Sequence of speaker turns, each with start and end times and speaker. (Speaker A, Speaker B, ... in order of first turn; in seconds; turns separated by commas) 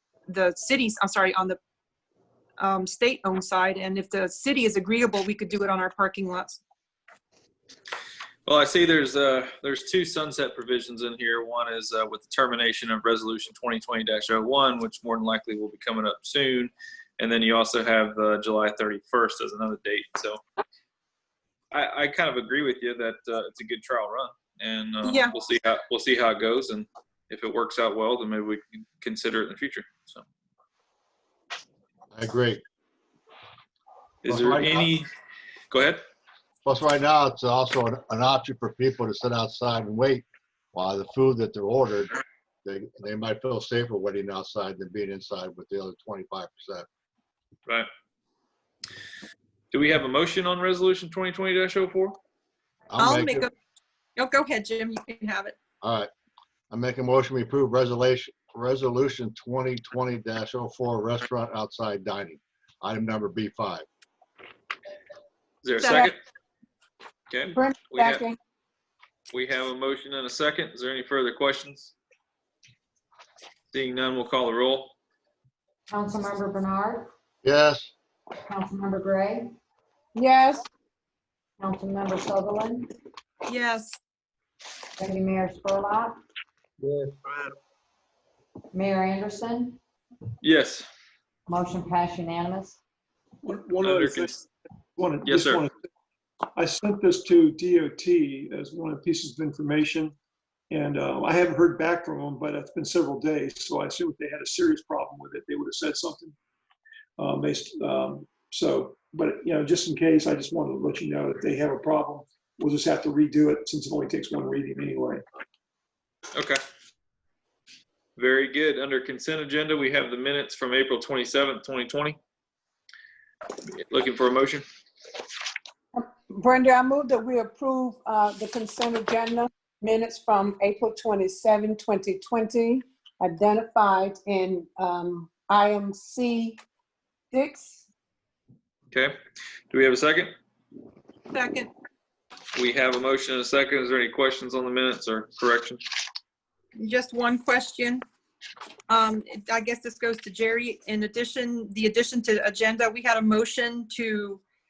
Speaker A: 0.3-1.6, Speaker A: 2.6-6.6, Speaker B: 8.4-20.4, Speaker B: 21.7-30.2, Speaker A: 25.0-25.3, Speaker C: 32.1-32.6, Speaker B: 34.2-35.1, Speaker C: 34.3-34.9, Speaker B: 35.7-36.0, Speaker C: 36.6-46.9, Speaker B: 49.7-52.2, Speaker C: 52.9-53.5, Speaker A: 53.0-53.5, Speaker A: 54.2-55.5, Speaker C: 55.8-56.1, Speaker C: 56.7-63.8, Speaker B: 65.6-66.2, Speaker A: 65.8-66.1, Speaker B: 67.3-68.2, Speaker D: 67.5-68.3, Speaker B: 69.3-71.9, Speaker B: 73.7-74.9, Speaker E: 75.9-77.1, Speaker C: 77.4-77.9, Speaker E: 78.5-79.5, Speaker D: 80.1-80.7, Speaker E: 81.6-82.9, Speaker A: 83.5-84.0, Speaker E: 85.0-86.2, Speaker E: 88.7-89.8, Speaker B: 90.4-90.9, Speaker E: 91.5-92.8, Speaker F: 93.4-95.7, Speaker B: 93.8-94.3, Speaker B: 95.2-95.6, Speaker F: 96.5-100.2, Speaker F: 100.7-106.3, Speaker F: 107.2-115.2, Speaker B: 116.3-116.6, Speaker B: 118.2-122.2, Speaker B: 123.7-124.6, Speaker D: 125.9-136.6, Speaker D: 137.3-137.8, Speaker B: 139.7-140.3, Speaker A: 141.3-141.7, Speaker B: 142.6-145.8, Speaker A: 146.8-148.0, Speaker A: 148.9-154.4